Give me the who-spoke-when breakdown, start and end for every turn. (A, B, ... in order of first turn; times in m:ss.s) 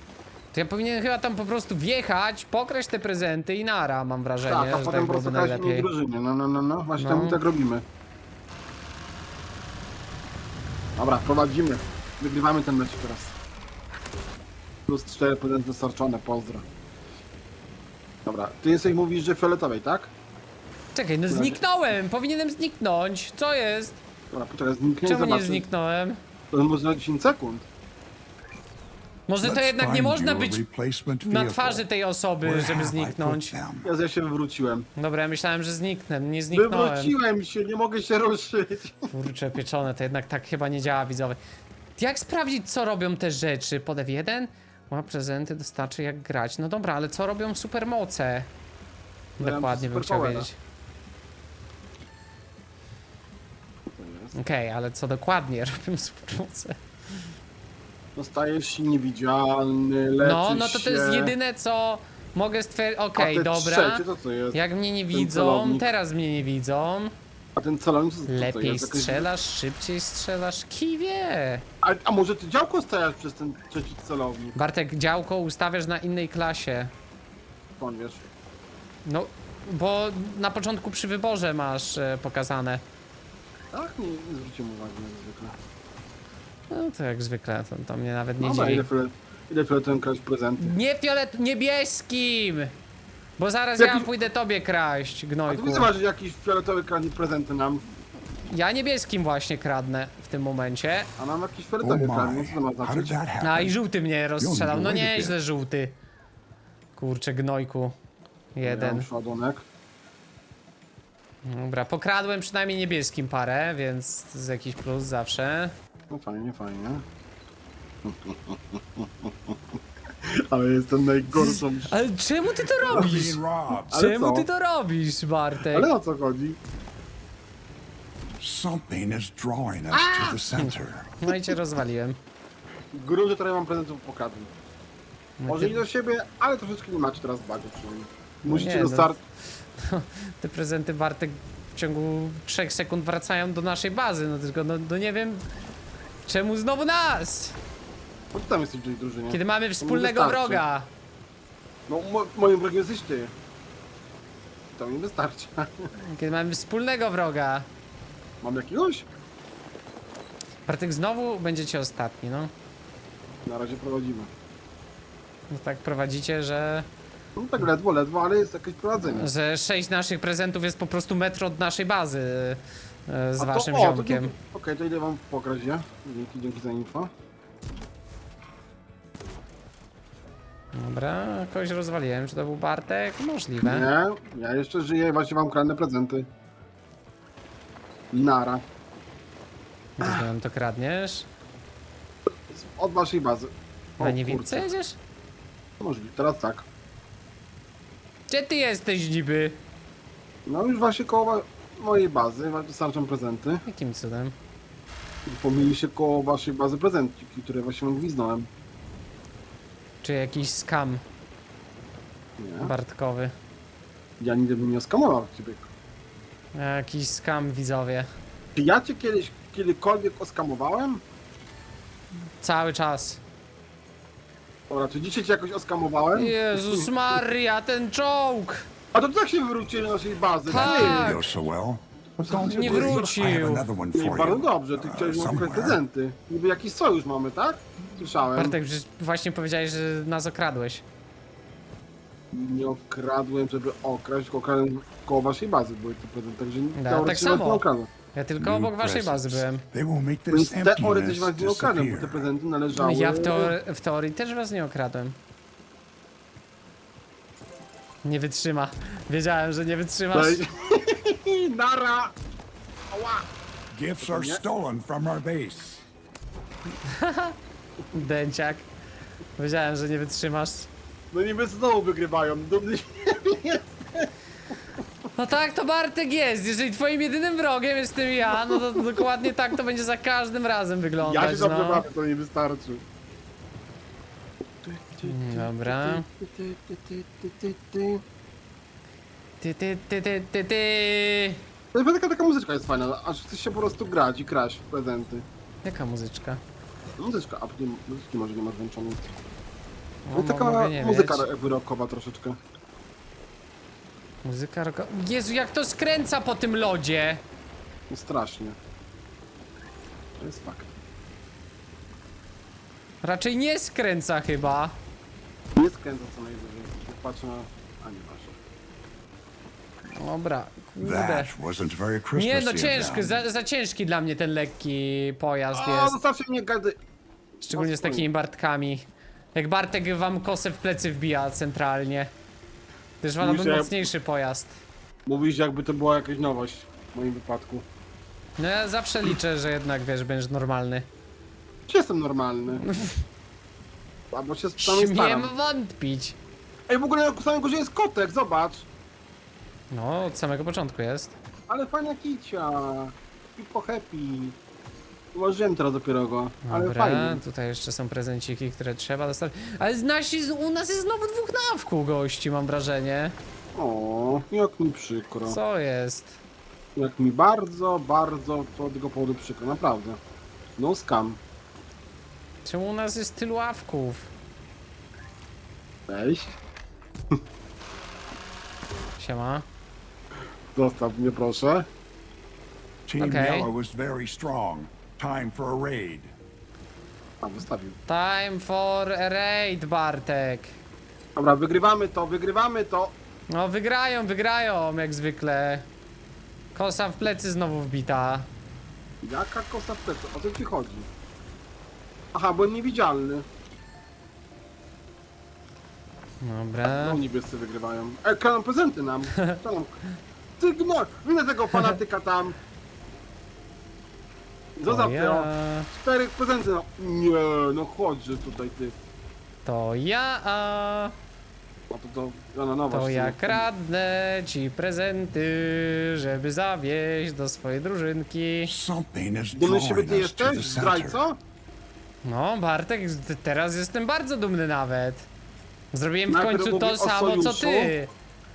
0:00.5-0:05.9 A
0:04.4-0:07.8 B
0:07.0-0:07.4 A
0:11.0-0:13.3 B
0:14.9-0:16.6 B
0:18.2-0:20.1 B
0:20.9-0:24.0 A
0:21.3-0:21.6 B
0:24.3-0:25.6 B
0:25.0-0:26.2 A
0:26.5-0:27.6 B
0:29.3-0:30.6 A
0:29.4-0:31.9 C
0:31.2-0:33.5 A
0:32.4-0:33.9 C
0:33.8-0:34.9 B
0:35.0-0:37.1 A
0:36.5-0:39.1 B
0:39.1-0:41.4 A
0:42.0-0:48.5 A
0:49.4-0:50.5 A
0:49.4-0:50.5 B
0:53.9-0:54.4 B
0:54.3-0:56.8 A
0:58.2-1:01.3 B
1:00.2-1:07.1 A
1:03.2-1:04.6 B
1:05.1-1:05.8 B
1:07.6-1:09.3 B
1:08.3-1:11.6 A
1:11.8-1:14.6 B
1:14.6-1:16.9 A
1:17.8-1:18.2 B
1:19.0-1:22.8 A
1:23.7-1:25.5 B
1:26.7-1:28.8 A
1:28.4-1:30.7 B
1:30.6-1:32.7 A
1:33.4-1:35.9 A
1:33.8-1:34.1 B
1:35.5-1:37.8 B
1:38.4-1:41.1 A
1:41.2-1:43.2 B
1:41.8-1:43.8 C
1:43.4-1:45.9 A
1:44.4-1:45.4 C
1:47.0-1:47.9 A
1:48.6-1:49.0 A
1:48.6-1:49.6 B
1:51.4-1:55.7 A
1:56.1-1:57.0 B
1:58.0-1:59.5 B
2:00.2-2:01.9 B
2:01.3-2:05.9 A
2:02.8-2:04.0 C
2:03.9-2:04.5 B
2:05.7-2:06.6 B
2:08.4-2:11.2 C
2:09.9-2:10.4 B
2:10.6-2:12.2 A
2:11.3-2:11.6 B
2:12.9-2:14.5 B
2:15.4-2:15.8 A
2:15.5-2:19.2 B
2:18.4-2:19.1 A
2:19.8-2:25.4 A
2:26.2-2:27.6 A
2:28.3-2:30.6 B
2:29.3-2:30.9 A
2:31.9-2:33.3 B
2:34.8-2:35.9 B
2:36.0-2:37.7 A
2:38.4-2:39.0 B
2:40.6-2:42.5 A
2:43.4-2:44.3 B
2:45.5-2:46.9 A
2:47.4-2:49.3 B
2:49.0-2:54.3 A
2:53.4-2:57.1 B
3:00.7-3:03.9 A
3:03.6-3:06.3 B
3:08.1-3:08.6 B
3:10.0-3:11.3 A
3:10.0-3:10.2 B
3:12.5-3:14.7 B
3:14.0-3:15.0 A
3:15.8-3:16.6 B
3:18.3-3:19.6 A
3:20.4-3:23.6 B
3:23.6-3:24.3 A
3:25.3-3:28.5 B
3:30.0-3:31.0 A
3:32.4-3:32.7 B
3:32.6-3:33.3 A
3:34.2-3:35.7 B
3:36.5-3:38.1 A
3:38.6-3:41.0 B
3:42.4-3:43.2 A
3:44.7-3:46.9 B
3:46.2-3:48.7 A
3:48.9-3:51.2 B
3:50.5-3:51.2 A
3:50.5-3:55.8 C
3:52.2-3:53.1 B
3:52.5-3:53.6 A
3:53.9-3:58.6 B
3:58.3-4:00.8 A
4:02.3-4:07.9 B
4:06.8-4:09.6 A
4:08.4-4:12.3 C
4:10.3-4:13.5 B
4:12.8-4:15.2 A
4:18.0-4:20.4 A
4:20.1-4:22.1 B
4:22.9-4:23.3 B
4:23.7-4:25.8 C
4:24.0-4:24.4 B
4:26.8-4:27.3 A
4:27.9-4:28.7 A
4:29.4-4:30.7 A
4:31.1-4:34.1 B
4:35.2-4:41.9 A
4:41.0-4:42.8 B
4:44.6-4:48.0 B
4:45.0-4:46.0 A
4:49.4-4:51.4 A
4:51.7-4:55.2 B
4:55.6-4:56.4 A
4:57.0-4:59.1 B
5:00.0-5:01.2 A
5:00.1-5:02.4 B
5:04.2-5:07.2 A
5:07.9-5:08.6 B
5:10.2-5:10.7 B
5:13.0-5:14.7 A
5:15.6-5:18.3 B
5:20.0-5:21.3 A
5:20.8-5:23.2 C
5:22.1-5:26.0 A
5:25.5-5:26.8 B
5:27.4-5:32.1 A
5:27.5-5:28.1 B
5:33.0-5:34.6 A
5:33.2-5:33.9 B
5:35.0-5:37.6 B
5:38.4-5:40.9 A
5:41.7-5:42.6 B
5:42.7-5:43.0 A
5:44.1-5:45.3 B
5:44.6-5:46.2 A
5:46.7-5:48.7 B
5:49.7-5:51.2 A
5:51.5-5:54.4 B
5:55.1-5:57.2 B
5:56.4-6:03.2 A
6:03.5-6:05.4 B
6:05.3-6:06.2 A
6:06.8-6:10.0 B
6:10.6-6:11.2 B
6:12.4-6:14.1 A
6:15.9-6:16.3 B
6:19.0-6:19.4 A
6:20.5-6:21.7 B
6:22.8-6:26.1 C
6:23.0-6:23.5 A
6:27.2-6:27.8 B
6:27.9-6:30.6 A
6:31.2-6:32.9 B
6:33.3-6:35.7 A
6:36.5-6:38.3 A
6:39.0-6:40.9 B
6:42.1-6:43.2 B
6:46.2-6:47.0 A
6:46.6-6:49.8 B
6:50.4-6:52.4 B
6:54.6-6:58.7 B
6:54.7-6:55.7 A
6:59.4-7:00.9 A
7:01.7-7:03.5 B
7:02.7-7:08.5 A
7:08.4-7:11.0 C
7:09.3-7:11.2 B
7:12.0-7:15.1 A
7:15.7-7:17.9 A
7:16.1-7:17.7 B